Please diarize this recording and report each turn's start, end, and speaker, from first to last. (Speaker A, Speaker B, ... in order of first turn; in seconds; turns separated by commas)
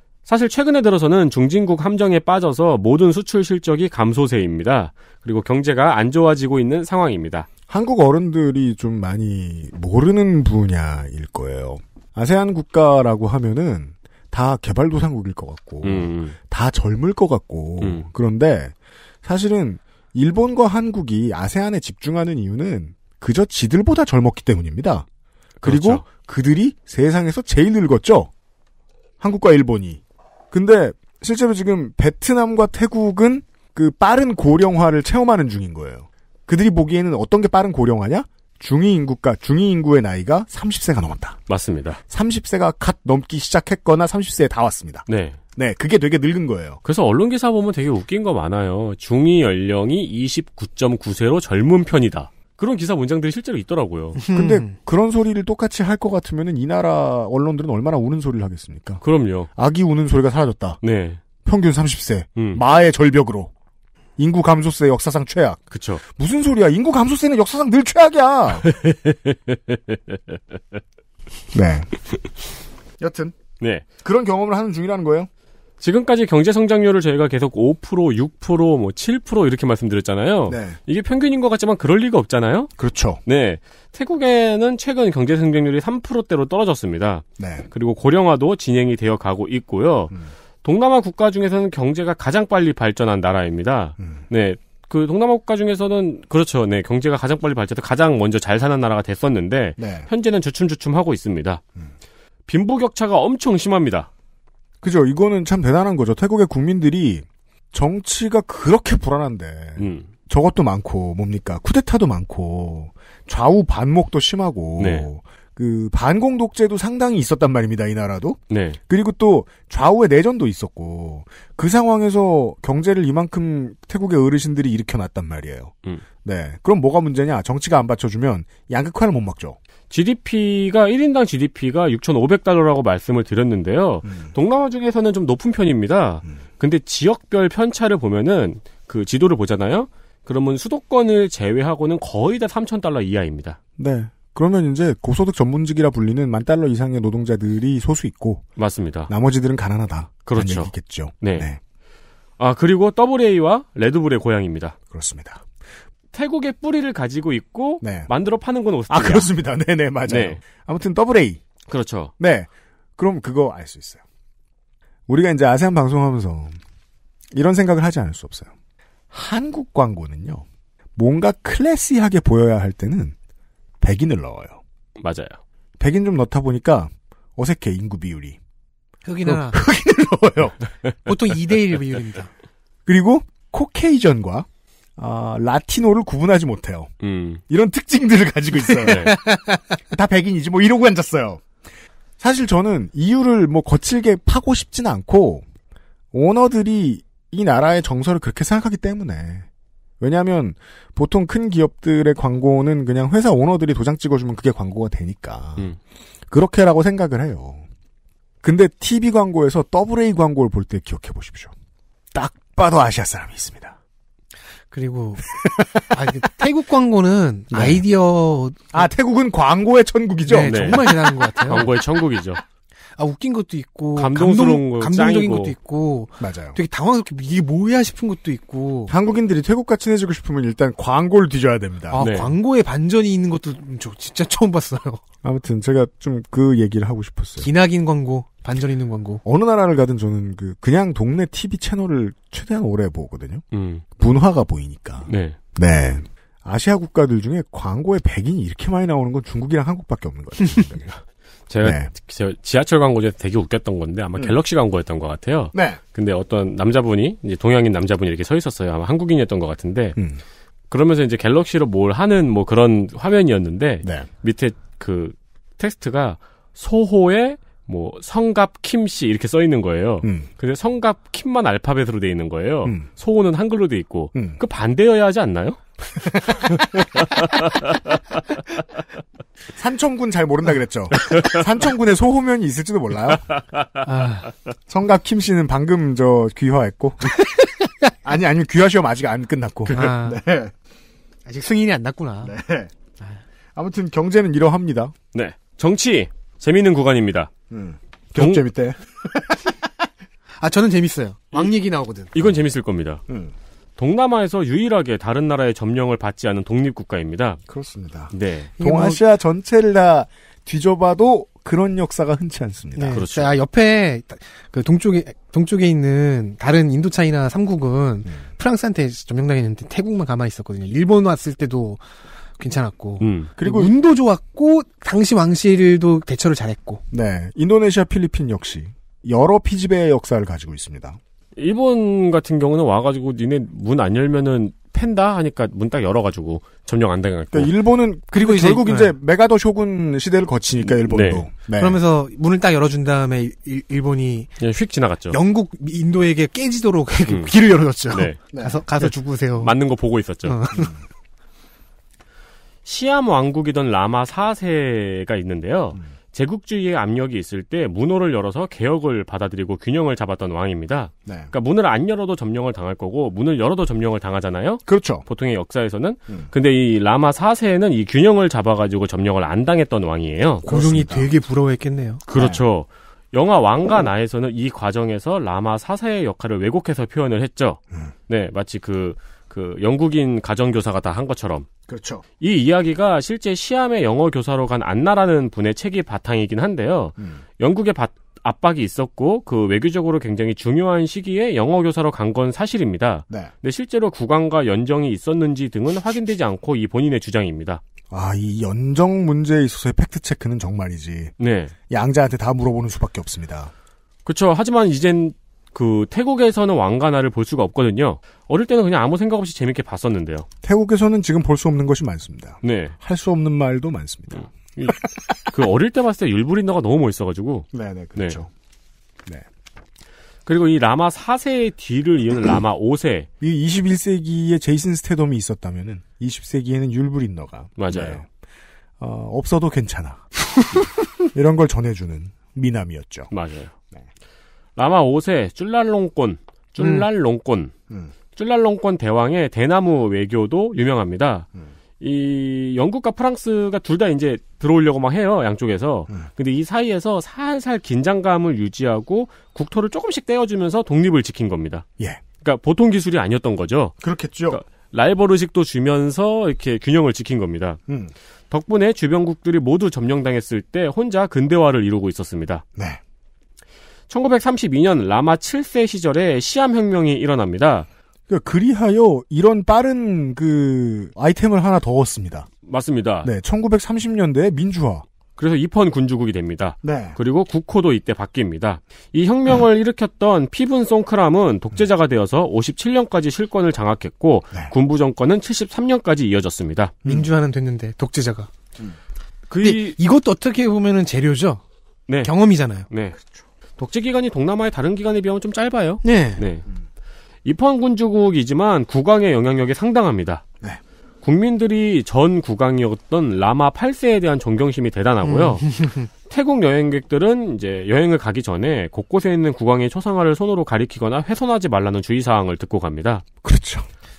Speaker A: 0.3-7.5, Speaker B: 7.7-25.1, Speaker A: 15.8-16.4, Speaker A: 17.8-18.1, Speaker A: 25.6-26.0, Speaker B: 25.6-28.3, Speaker B: 29.2-41.4, Speaker A: 41.5-42.0, Speaker B: 42.1-46.8, Speaker A: 45.1-45.4, Speaker A: 46.9-54.2, Speaker C: 54.2-54.8, Speaker B: 54.3-59.0, Speaker A: 59.0-59.5, Speaker B: 59.6-60.8, Speaker A: 60.8-61.2, Speaker B: 61.5-63.5, Speaker A: 62.4-62.6, Speaker B: 64.2-68.7, Speaker A: 65.7-66.0, Speaker A: 68.7-70.8, Speaker B: 71.5-71.9, Speaker B: 73.0-73.4, Speaker A: 73.6-73.9, Speaker B: 74.0-75.3, Speaker A: 75.8-82.7, Speaker B: 80.5-80.8, Speaker B: 82.8-83.2, Speaker A: 83.2-101.6, Speaker B: 87.4-87.7, Speaker B: 99.8-100.1, Speaker A: 102.5-104.1, Speaker B: 104.8-129.6, Speaker A: 109.8-110.1, Speaker A: 114.8-115.1, Speaker A: 118.5-118.8, Speaker A: 129.9-143.6, Speaker B: 143.8-148.5, Speaker A: 148.6-149.1, Speaker B: 149.1-151.6, Speaker A: 150.3-151.5, Speaker A: 152.4-154.8, Speaker B: 154.9-155.4, Speaker A: 156.1-159.3, Speaker B: 157.8-158.1, Speaker B: 158.9-161.4, Speaker A: 160.1-160.4, Speaker A: 161.7-162.1, Speaker B: 162.2-164.0, Speaker B: 165.1-166.6, Speaker B: 167.3-168.5, Speaker B: 169.1-170.4, Speaker B: 171.0-173.2, Speaker B: 173.8-174.6, Speaker A: 175.0-175.4, Speaker B: 175.8-178.4, Speaker C: 179.1-179.6, Speaker B: 179.2-180.6, Speaker C: 181.1-182.3, Speaker B: 182.9-186.9, Speaker A: 187.0-187.4, Speaker B: 187.5-191.4, Speaker A: 188.8-189.2, Speaker B: 192.2-195.4, Speaker B: 196.1-199.5, Speaker B: 200.0-205.7, Speaker B: 206.3-207.7, Speaker B: 208.4-211.5, Speaker B: 212.1-213.8, Speaker C: 214.7-215.3, Speaker B: 215.2-216.3, Speaker C: 215.9-218.9, Speaker B: 217.5-217.8, Speaker B: 218.7-221.8, Speaker C: 220.3-221.6, Speaker A: 220.5-222.4, Speaker C: 223.0-228.9, Speaker A: 224.0-225.6, Speaker B: 226.2-226.6, Speaker B: 228.9-232.1, Speaker C: 231.9-235.0, Speaker A: 232.0-232.4, Speaker B: 235.2-237.5, Speaker C: 237.4-239.2, Speaker B: 239.2-243.4, Speaker A: 243.5-243.8, Speaker B: 244.0-251.0, Speaker A: 245.1-245.4, Speaker A: 251.5-260.0, Speaker B: 251.6-251.9, Speaker B: 255.5-255.8, Speaker B: 260.0-260.2, Speaker A: 260.7-277.7, Speaker B: 263.8-264.1, Speaker B: 270.0-270.3, Speaker B: 279.6-283.2, Speaker C: 283.8-284.3, Speaker B: 284.7-287.1, Speaker B: 288.0-290.5, Speaker C: 289.7-290.2, Speaker C: 291.3-292.3, Speaker B: 292.2-292.7, Speaker B: 293.6-294.9, Speaker A: 295.1-297.3, Speaker B: 297.5-299.7, Speaker A: 298.2-298.4, Speaker C: 300.4-302.1, Speaker A: 302.1-303.0, Speaker B: 303.1-303.3, Speaker A: 303.8-307.4, Speaker B: 307.5-313.0, Speaker A: 308.1-308.5, Speaker C: 308.6-309.0, Speaker C: 312.8-321.8, Speaker A: 312.9-313.3, Speaker C: 322.4-326.8, Speaker A: 323.0-323.3, Speaker B: 323.4-323.7, Speaker B: 326.9-331.0, Speaker A: 331.4-337.5, Speaker B: 337.3-341.8, Speaker C: 338.1-338.9, Speaker A: 340.7-341.3, Speaker C: 341.6-344.3, Speaker A: 344.4-345.2, Speaker C: 345.1-349.5, Speaker A: 347.1-347.3, Speaker A: 347.9-348.2, Speaker B: 348.3-348.6, Speaker A: 348.8-350.4, Speaker C: 350.2-350.7, Speaker B: 350.6-350.8, Speaker A: 352.6-370.4, Speaker B: 361.1-361.3, Speaker B: 364.7-365.1, Speaker B: 370.4-371.1, Speaker C: 370.5-372.0, Speaker A: 372.1-381.5, Speaker B: 372.1-372.4, Speaker B: 381.7-382.0, Speaker A: 382.2-397.6, Speaker B: 397.9-401.1, Speaker A: 401.2-401.5, Speaker B: 401.7-403.5, Speaker A: 404.1-410.3, Speaker B: 410.4-414.3, Speaker A: 412.4-412.8, Speaker A: 414.2-418.2, Speaker B: 417.5-418.3, Speaker A: 420.3-423.1, Speaker B: 423.2-428.1, Speaker A: 427.6-428.0, Speaker B: 428.8-433.1, Speaker A: 433.1-433.5, Speaker A: 434.6-437.5, Speaker A: 438.2-441.3, Speaker A: 441.8-451.7, Speaker A: 452.2-453.8, Speaker B: 453.8-454.4, Speaker A: 454.3-457.6, Speaker A: 458.3-462.4, Speaker A: 463.9-467.7, Speaker B: 468.1-472.3, Speaker A: 472.5-473.1, Speaker B: 473.0-474.9, Speaker A: 475.2-486.8, Speaker B: 476.6-477.0, Speaker C: 486.9-488.3, Speaker A: 489.3-489.8, Speaker C: 489.4-491.4, Speaker A: 491.9-492.1, Speaker C: 492.0-492.7, Speaker A: 492.7-493.0, Speaker A: 493.6-496.5, Speaker C: 495.8-496.2, Speaker A: 497.2-500.2, Speaker A: 501.0-513.0, Speaker C: 505.0-505.9, Speaker B: 513.2-513.7